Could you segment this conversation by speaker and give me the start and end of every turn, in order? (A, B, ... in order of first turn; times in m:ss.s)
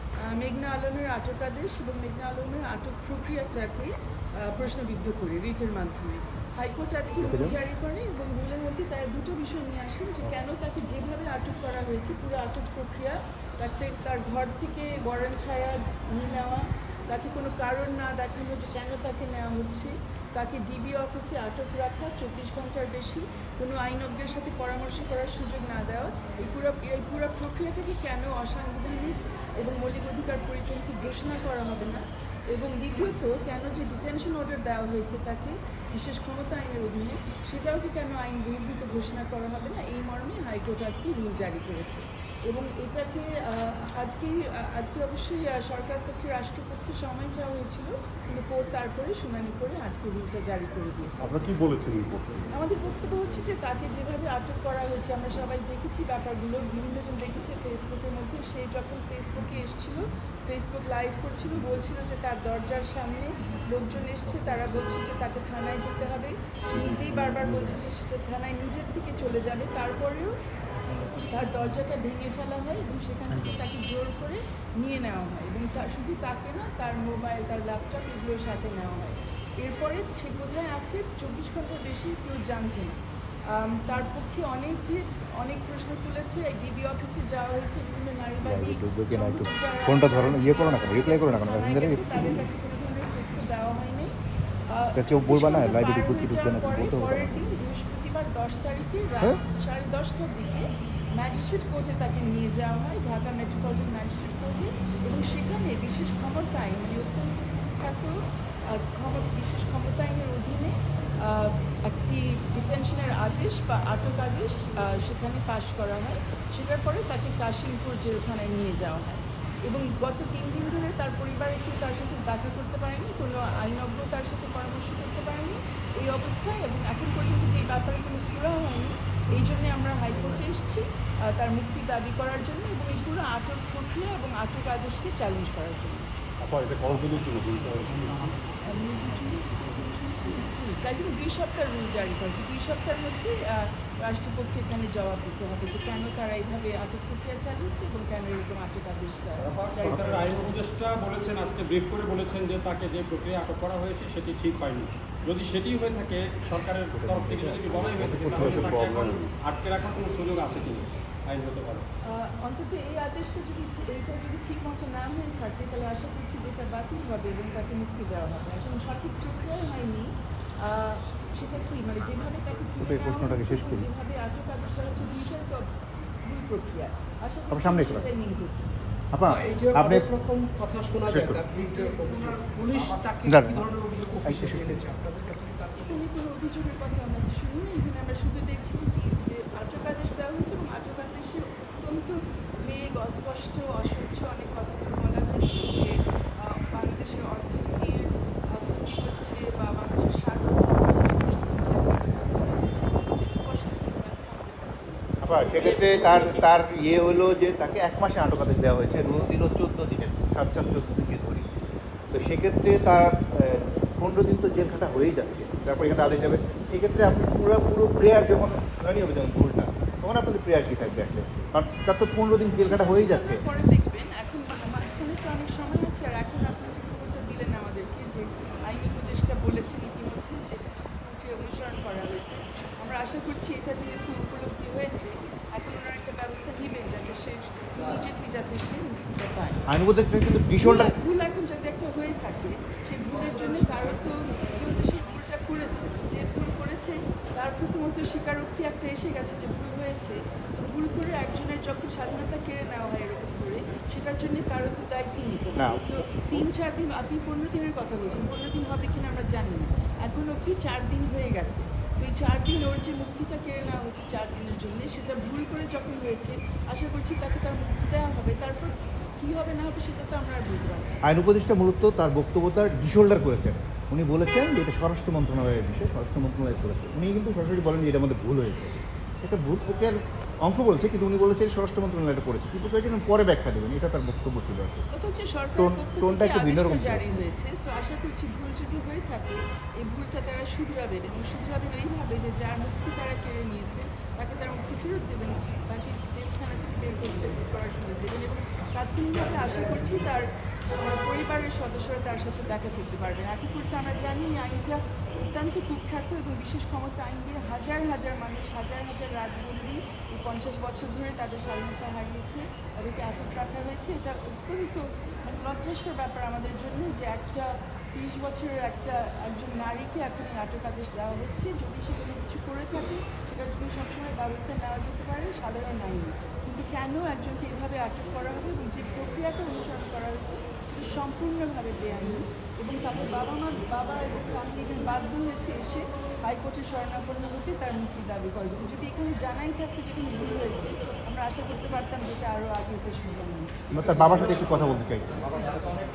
0:00.2-0:51.5 A
0:07.2-0:07.6 B
0:51.2-0:52.4 C
0:52.5-1:10.4 A
1:11.0-1:34.1 A
1:28.4-1:32.4 B
1:34.7-1:48.1 A
1:34.9-1:37.4 B
1:48.7-2:16.1 A
2:16.4-2:18.3 C
2:18.6-2:30.3 A
2:29.4-2:41.8 D
2:29.8-2:30.1 C
2:37.1-2:39.3 C
2:42.0-2:58.7 A
2:52.8-2:53.9 B
2:57.5-2:58.1 B
2:59.1-3:00.1 B
2:59.3-3:06.0 E
3:01.0-3:01.4 B
3:01.6-3:02.4 A
3:03.2-3:03.7 B
3:04.2-3:04.8 B
3:05.8-3:25.2 A
3:25.2-3:31.5 B
3:25.5-3:26.4 E
3:32.1-3:43.4 B
3:42.6-3:59.6 A
3:59.7-4:00.9 B
4:00.6-4:31.0 A
4:15.5-4:16.4 B
4:31.0-4:44.8 B
4:44.9-5:43.9 A
4:45.6-4:47.2 B
5:43.7-5:45.6 B